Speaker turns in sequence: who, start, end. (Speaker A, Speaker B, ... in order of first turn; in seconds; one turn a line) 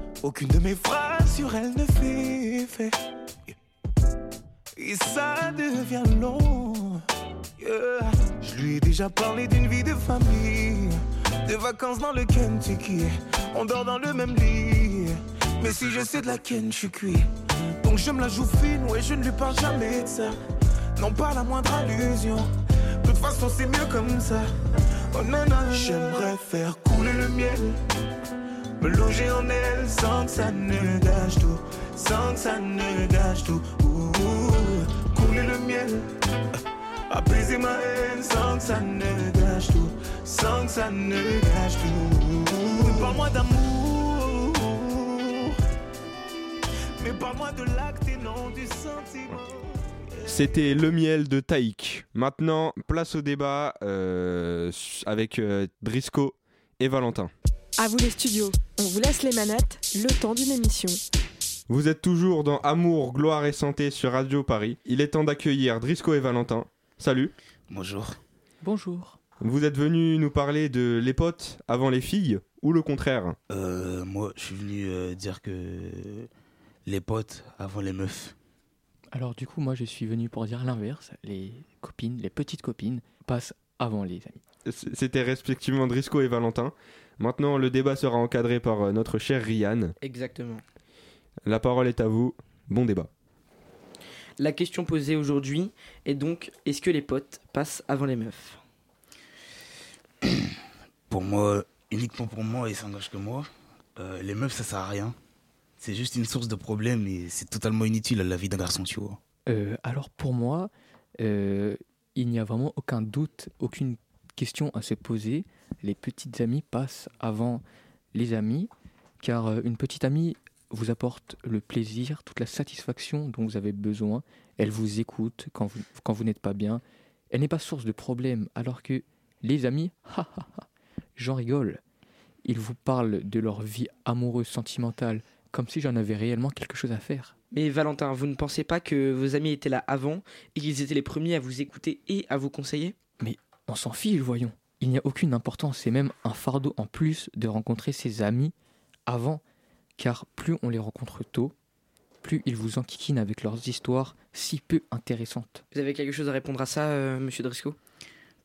Speaker A: 0.2-2.9
Speaker A: 4.8-7.0
Speaker A: 7.6-17.3
Speaker A: 17.8-20.3
Speaker A: 21.0-22.5
Speaker A: 23.0-24.4
Speaker A: 25.1-27.8
Speaker A: 28.8-36.1
Speaker A: 37.1-45.5
Speaker A: 47.0-49.6
Speaker B: 50.3-57.3
Speaker C: 57.8-61.0
Speaker B: 61.7-67.3
Speaker D: 67.7-68.2
Speaker E: 68.6-69.2
Speaker B: 69.4-73.4
Speaker D: 73.5-76.3
Speaker D: 76.8-78.3
Speaker E: 79.1-84.4
Speaker B: 84.7-89.9
Speaker F: 90.0-90.6
Speaker B: 91.5-93.1
Speaker F: 94.4-98.6
Speaker D: 101.1-105.1
Speaker D: 105.8-109.2
Speaker E: 109.5-117.6
Speaker E: 118.1-118.7
Speaker E: 119.2-130.7
Speaker E: 131.2-131.8
Speaker E: 132.4-137.3
Speaker F: 137.5-143.0
Speaker E: 143.2-148.5
Speaker E: 149.1-149.4
Speaker E: 150.0-151.5
Speaker E: 152.2-155.6
Speaker F: 155.7-157.8